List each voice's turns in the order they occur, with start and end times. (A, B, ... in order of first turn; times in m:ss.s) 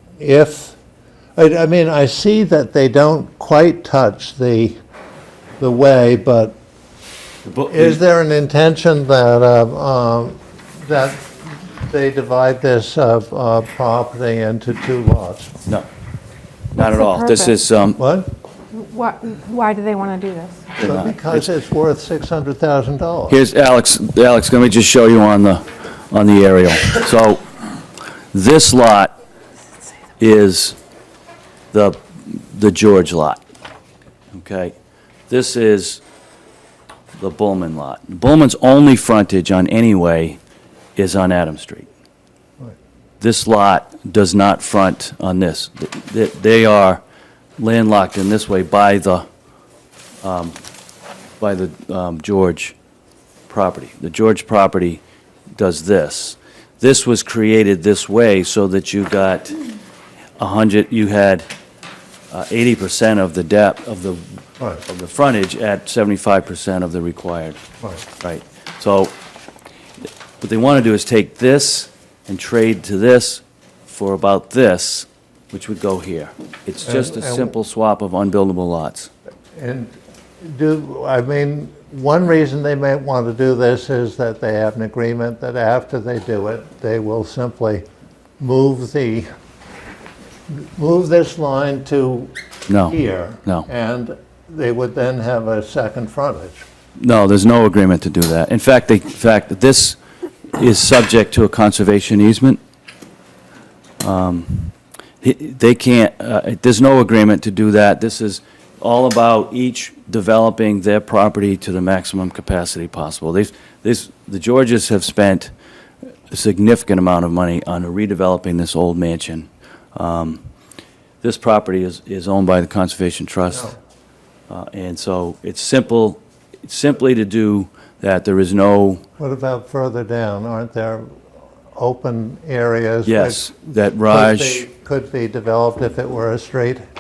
0:00.2-0:00.8 A
0:01.4-0:04.8 A
0:05.6-0:06.6 A
0:07.4-0:08.0 B
0:07.7-0:15.5 A
0:16.7-0:18.0 B
0:16.8-0:17.5 C
0:18.0-0:18.3 A
0:18.7-0:20.7 C
0:20.8-0:21.5 B
0:20.8-0:23.4 A
0:23.3-0:27.4 B
0:28.3-0:29.2 B
0:30.2-0:30.8 B
0:31.7-0:33.4 B
0:34.3-0:34.8 B
0:35.3-0:36.0 B
0:37.2-0:40.4 B
0:41.0-0:41.9 B
0:43.2-0:47.0 B
0:47.6-0:49.3 B
0:50.2-0:50.6 B
0:51.4-0:52.8 B
0:53.5-0:55.0 B
0:55.6-0:59.6 B
1:00.4-1:01.5 B
1:02.3-1:07.6 B
1:08.2-1:09.1 B
1:10.4-1:19.1 B
1:16.8-1:17.6 A
1:19.6-1:27.8 A
1:28.4-1:29.3 A
1:30.5-1:36.6 A
1:32.7-1:33.7 B
1:37.0-1:40.0 B
1:40.5-1:42.6 B
1:44.0-1:55.5 B
1:56.3-2:00.4 B
2:01.2-2:03.8 B
2:04.5-2:09.0 B
2:09.2-2:11.2 A
2:11.8-2:16.8 A
2:13.0-2:14.7 B